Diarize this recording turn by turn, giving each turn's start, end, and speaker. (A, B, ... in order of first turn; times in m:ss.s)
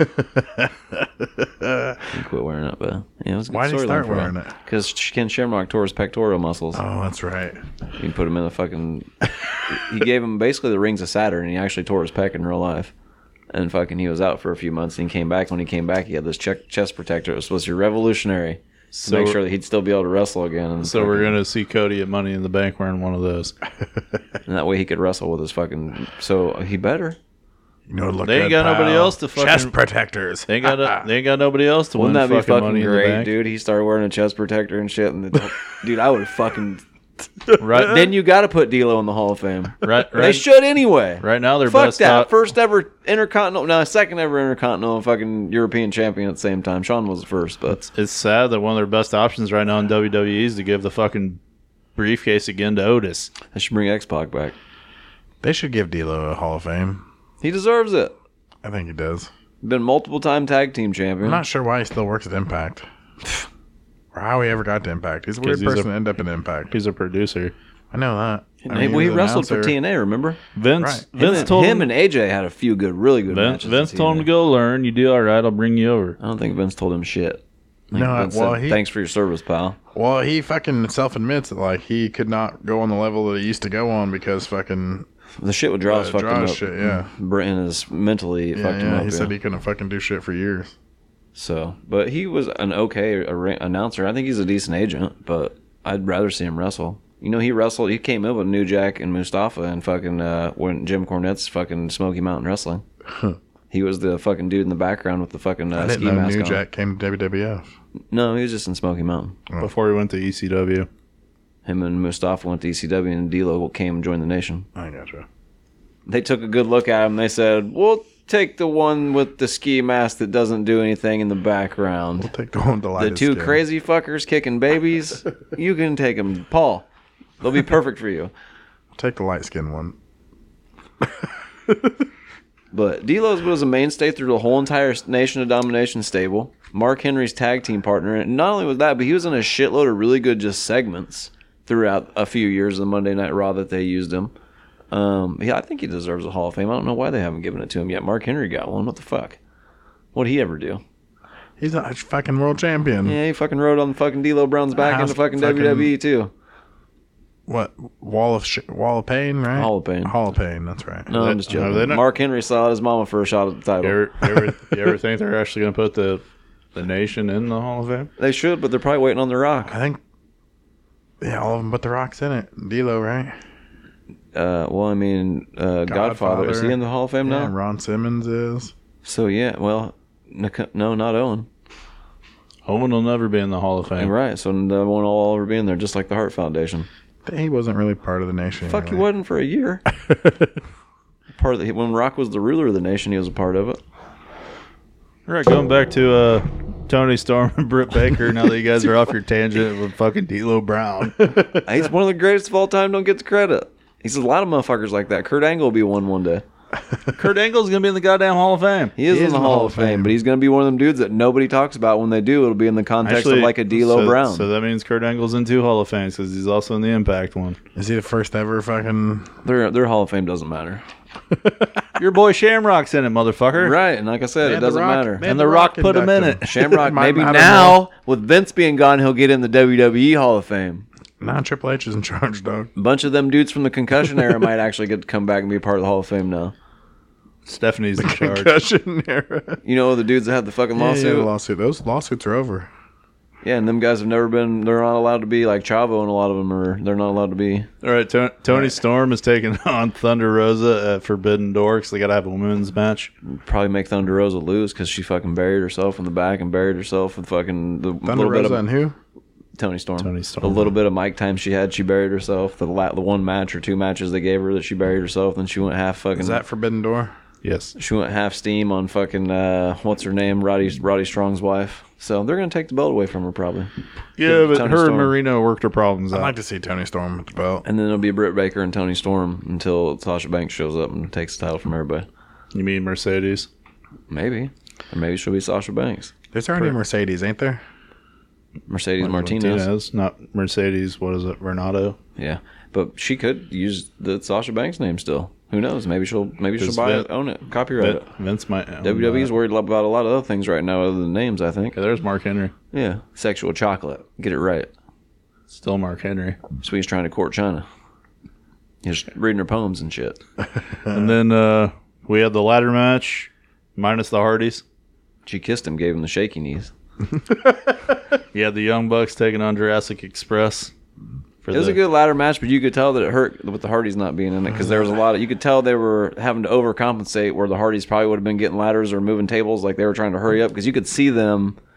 0:00.1-0:02.0 A
0:02.1-0:06.8 B
0:03.5-0:04.5 A
0:06.7-0:07.6 A
0:08.0-0:09.1 B
0:09.7-0:12.9 B
0:13.5-0:21.3 B
0:18.9-0:19.4 C
0:20.8-0:23.5 C
0:24.4-0:27.2 B
0:27.9-0:31.0 A
0:28.2-0:29.7 C
0:30.5-0:33.3 C
0:32.0-0:36.8 B
0:37.5-0:47.9 B
0:37.6-0:38.1 C
0:39.8-0:40.4 C
0:41.2-0:42.3 C
0:47.9-0:51.4 C
0:52.0-0:53.3 C
0:53.5-0:54.5 B
0:55.4-0:57.0 A
0:57.4-0:58.1 B
0:58.6-0:59.3 A
0:59.6-1:01.4 B
1:01.2-1:03.4 A
1:04.1-1:06.7 A
1:05.4-1:05.9 C
1:06.7-1:07.5 C
1:07.9-1:09.7 A
1:08.6-1:10.4 B
1:10.5-1:11.9 C
1:10.8-1:11.5 A
1:11.2-1:14.3 B
1:13.3-1:16.2 C
1:16.2-1:19.8 B
1:17.9-1:18.8 A
1:19.9-1:25.0 A
1:25.4-1:29.3 B
1:25.8-1:27.1 A
1:28.5-1:30.7 A
1:31.3-1:42.8 B
1:43.7-1:46.6 B
1:45.7-1:47.7 A
1:48.1-1:49.4 B
1:49.6-1:50.9 C
1:51.6-1:54.7 B
1:54.7-1:55.2 A
1:56.1-2:02.3 B
2:02.2-2:03.6 A
2:03.0-2:06.8 B
2:07.4-2:08.3 B
2:09.0-2:10.0 A
2:12.7-2:24.3 B
2:24.9-2:29.4 B
2:30.1-2:30.8 B
2:31.6-2:33.2 A
2:33.0-2:36.3 B
2:34.8-2:35.9 A
2:37.5-2:41.1 A
2:39.6-2:40.1 B
2:41.1-2:44.0 B
2:41.1-2:42.0 C
2:43.8-2:46.2 C
2:46.7-2:48.1 C
2:48.2-2:49.7 B
2:49.6-2:50.0 A
2:51.2-2:53.3 A
2:54.3-2:57.5 B
2:55.9-2:58.7 A
2:59.0-3:01.5 B
3:02.6-3:04.1 C
3:04.0-3:06.9 B
3:07.2-3:09.0 A
3:08.6-3:09.8 B
3:10.0-3:10.5 A
3:11.3-3:13.8 B
3:15.3-3:21.3 C
3:21.2-3:21.6 A
3:21.6-3:26.4 B
3:27.2-3:28.9 C
3:29.0-3:34.4 B
3:29.1-3:30.1 A
3:33.0-3:37.6 C
3:37.7-3:39.3 A
3:39.4-3:40.8 B
3:41.3-3:41.9 A
3:42.0-3:43.8 C
3:43.6-3:45.2 B
3:44.4-3:47.8 A
3:45.2-3:46.4 C
3:46.4-3:50.8 B
3:51.2-3:52.7 A
3:52.8-3:56.5 B
3:57.4-3:58.5 C
3:58.0-3:59.6 A
3:59.6-4:01.3 B
4:00.7-4:02.7 A
4:03.4-4:07.7 B
4:07.8-4:13.1 C
4:13.2-4:18.6 B
4:18.0-4:19.0 A
4:19.6-4:26.4 B
4:20.0-4:20.7 C
4:26.1-4:27.1 A
4:27.4-4:27.7 C
4:27.8-4:35.1 B
4:34.2-4:36.3 C
4:36.1-4:37.6 A
4:37.6-4:42.0 B
4:42.5-4:43.5 C
4:44.1-4:46.1 B
4:46.3-4:47.6 A
4:48.7-4:49.7 B
4:49.0-4:52.0 C
4:52.2-4:58.0 B
4:56.6-4:57.1 C
4:57.8-4:59.3 C
4:58.8-5:01.8 B
5:01.7-5:02.5 C
5:02.7-5:04.7 B
5:05.5-5:06.4 C
5:06.6-5:07.6 B
5:08.8-5:10.2 B
5:10.9-5:14.6 C
5:15.2-5:16.7 B
5:18.3-5:20.7 C
5:21.4-5:21.8 C
5:21.5-5:31.6 B